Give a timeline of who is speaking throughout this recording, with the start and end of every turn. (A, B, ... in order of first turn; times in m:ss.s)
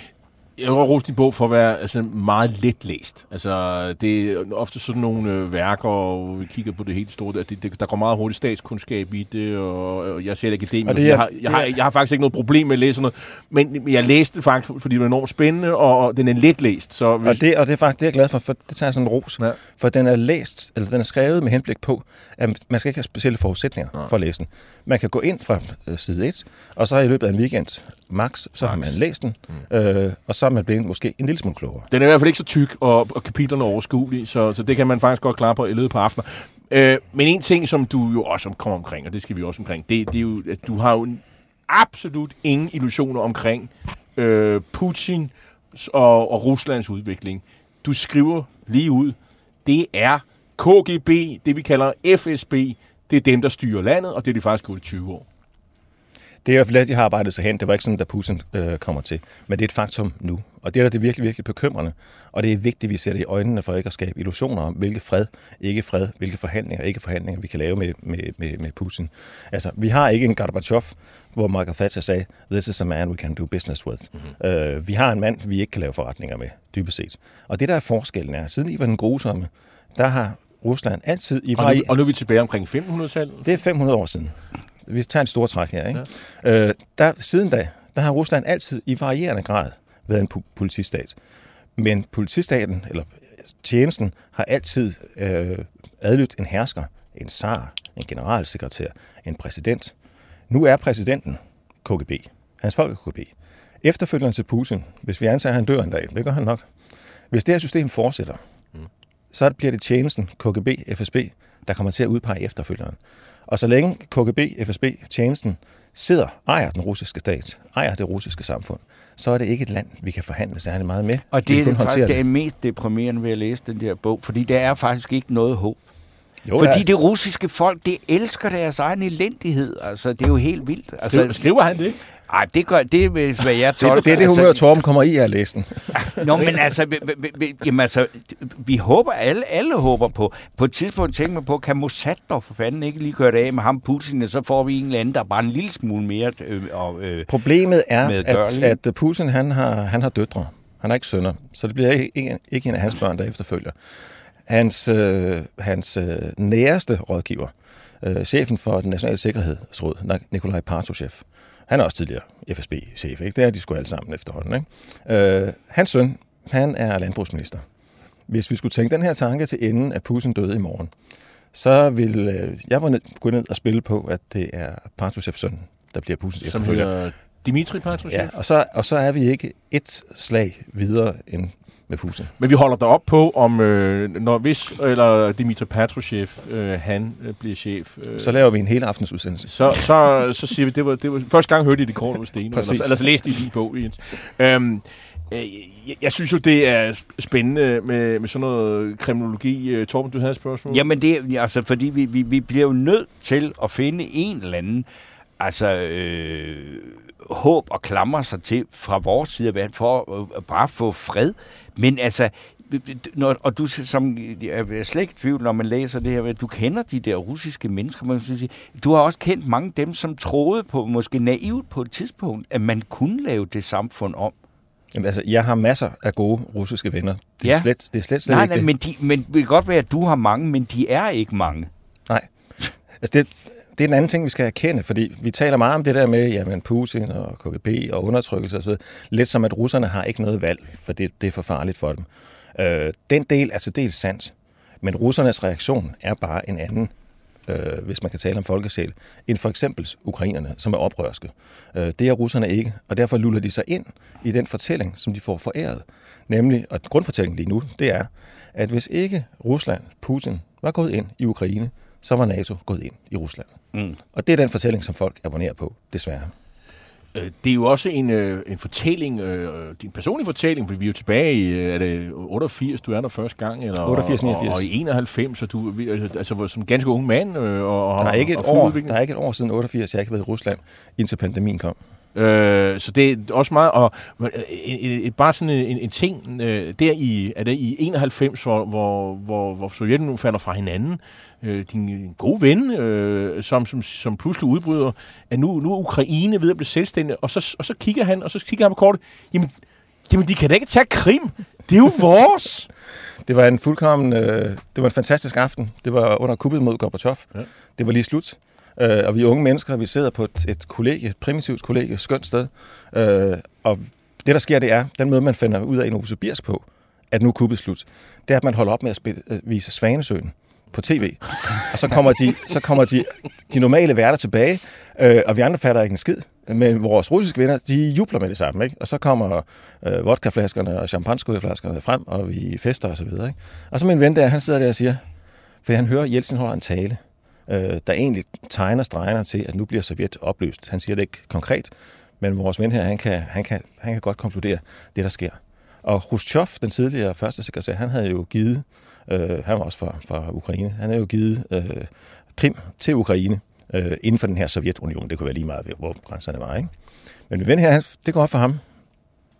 0:00.6-0:17.4 A
0:10.8-0:11.7 B
0:17.2-0:31.9 B
0:31.9-0:55.2 A
0:56.4-1:21.9 B
1:21.5-1:23.5 A
1:23.4-1:31.2 B
1:31.8-1:39.9 B
1:40.5-1:43.3 B
1:43.8-1:46.7 B
1:47.3-1:48.4 B
1:49.3-1:53.0 B
1:53.5-2:02.2 B
2:01.3-2:05.8 C
2:06.4-2:06.8 B
2:06.6-2:11.4 C
2:11.1-2:12.0 A
2:12.3-2:14.6 C
2:13.8-2:15.9 B
2:15.9-2:27.3 C
2:27.3-2:33.7 B
2:28.0-2:28.8 C
2:34.4-2:47.6 B
2:48.3-2:50.9 B
2:51.5-2:56.9 B
2:56.4-2:58.3 A
2:58.1-3:02.3 B
3:02.4-3:08.4 A
3:08.2-3:09.5 B
3:09.5-3:20.8 A
3:12.5-3:12.9 B
3:20.7-3:24.8 C
3:25.4-3:44.3 C
3:44.9-3:48.7 B
3:48.2-3:51.7 C
3:53.0-4:06.9 B
4:07.4-4:23.5 B
4:24.1-4:26.3 B
4:27.1-4:38.9 A
4:33.8-4:34.6 B
4:38.0-4:41.8 B
4:42.1-4:59.5 A
5:00.0-5:02.7 A
5:03.2-5:35.0 B
5:35.6-5:56.7 B
5:57.3-5:58.6 B